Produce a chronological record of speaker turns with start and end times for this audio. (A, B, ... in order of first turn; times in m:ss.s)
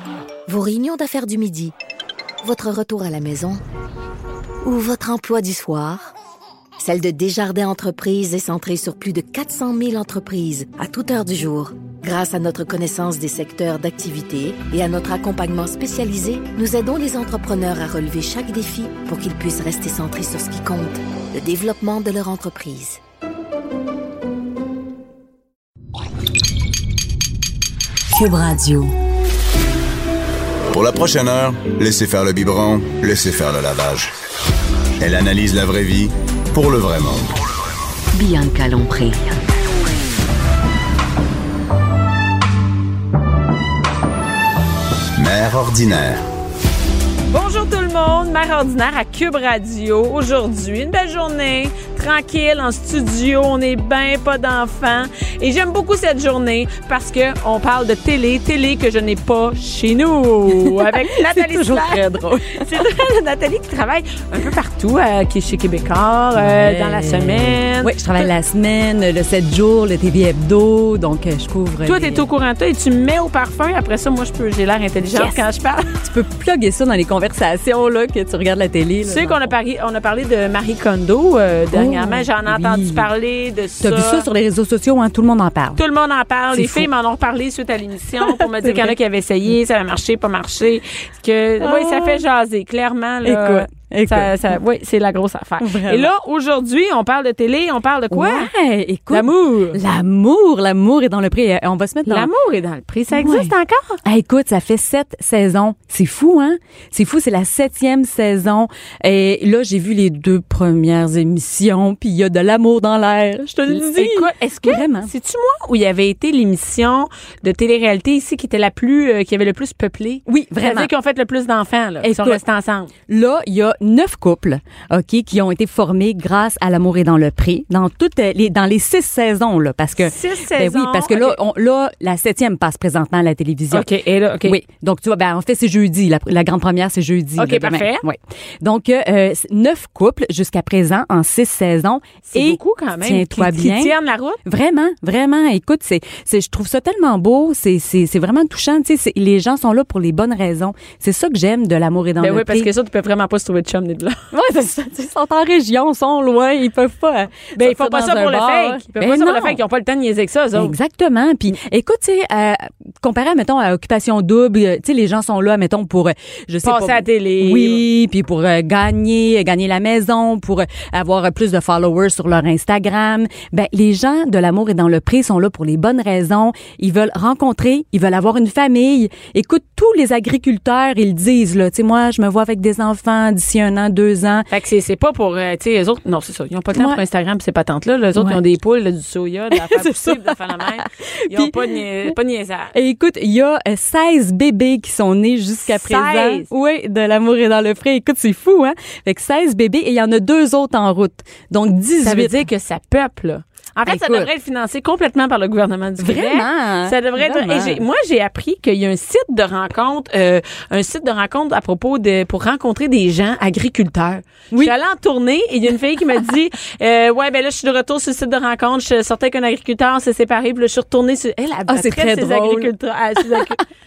0:00.5-0:01.7 A
0:02.4-0:03.6 A
0:04.6-0:06.0 A
0:06.8-0:23.0 A
0:28.1-0:28.9 B
0:30.7-0:34.1 C
0:35.0-0:37.4 C
0:38.1-0:39.4 B
0:45.2-0:46.2 C
0:47.3-1:07.9 D
1:00.5-1:02.7 E
1:06.4-1:12.2 E
1:11.8-1:15.9 D
1:15.1-1:15.4 E
1:16.0-1:19.4 E
1:19.1-1:24.3 D
1:21.7-1:23.1 E
1:23.8-1:25.8 E
1:25.8-1:38.5 D
1:26.5-1:26.9 E
1:28.2-1:29.0 E
1:31.6-1:32.2 E
1:33.2-1:34.5 E
1:35.6-1:36.1 E
1:38.1-1:42.3 E
1:39.1-1:39.8 D
1:42.1-1:44.0 D
1:43.1-1:43.5 E
1:44.0-1:55.1 E
1:53.7-2:02.9 D
2:00.3-2:00.9 E
2:02.0-2:02.4 E
2:03.1-2:13.9 E
2:10.0-2:11.4 D
2:13.7-2:14.6 D
2:14.4-2:32.7 E
2:17.4-2:18.0 D
2:22.3-2:24.4 D
2:32.2-2:34.2 D
2:34.3-2:39.6 E
2:37.6-2:40.8 D
2:40.6-3:04.5 E
2:46.6-2:47.8 D
3:04.5-3:12.7 D
3:06.7-3:07.0 E
3:09.5-3:12.1 E
3:12.7-3:22.4 E
3:15.7-3:16.5 D
3:22.0-3:43.6 D
3:23.9-3:24.3 E
3:26.0-3:27.8 E
3:41.7-3:42.7 E
3:43.3-3:43.6 E